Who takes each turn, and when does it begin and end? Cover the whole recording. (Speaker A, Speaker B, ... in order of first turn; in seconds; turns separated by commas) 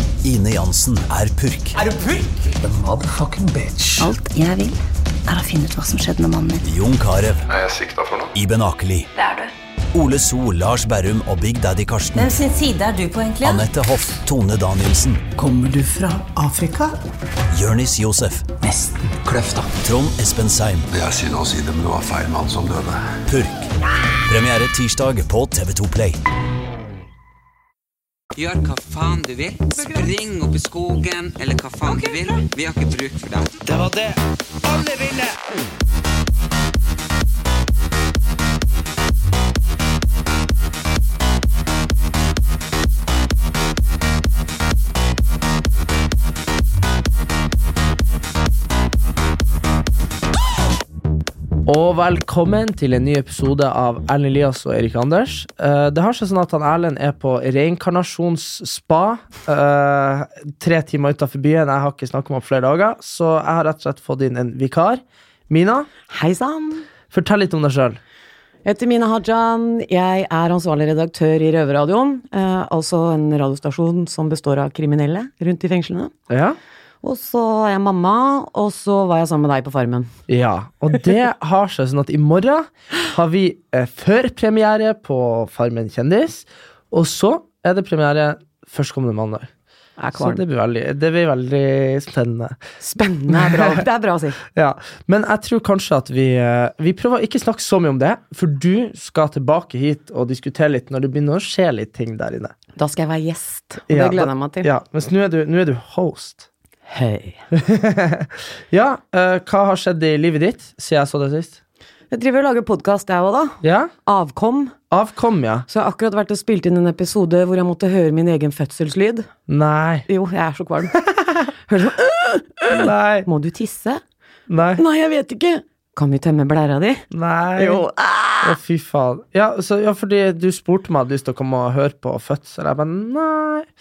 Speaker A: 0.2-1.8, Speaker B: 2.6-4.1, Speaker C: 4.0-6.6, Speaker A: 6.6-7.5, Speaker D: 7.5-8.3, Speaker A: 8.3-9.1, Speaker E: 9.1-9.5, Speaker A: 9.9-12.4, Speaker E: 12.2-13.7, Speaker A: 13.4-15.2, Speaker B: 15.3-17.0, Speaker A: 17.5-18.5, Speaker B: 18.6-19.7, Speaker A: 19.8-20.9, Speaker D: 20.9-23.1, Speaker A: 23.3-23.7, Speaker A: 24.2-26.2, Speaker F: 28.4-35.4, Speaker G: 51.6-65.9, Speaker H: 66.1-66.8, Speaker G: 67.1-68.0, Speaker H: 68.6-76.1, Speaker G: 76.3-76.6, Speaker H: 77.0-80.1, Speaker G: 80.3-89.5, Speaker H: 90.0-90.4, Speaker G: 90.1-92.6, Speaker H: 92.8-94.4, Speaker G: 93.3-93.8, Speaker G: 94.5-102.5, Speaker H: 102.8-104.7, Speaker G: 103.9-106.5, Speaker H: 106.9-107.4, Speaker G: 107.5-111.6, Speaker H: 112.1-114.7, Speaker G: 113.6-113.9, Speaker G: 114.9-115.7, Speaker H: 115.7-119.3, Speaker G: 119.5-120.1, Speaker H: 120.1-124.0, Speaker G: 122.7-123.3, Speaker G: 124.5-124.8, Speaker H: 124.8-127.0, Speaker G: 127.1-127.8, Speaker H: 127.6-128.6, Speaker G: 128.4-133.7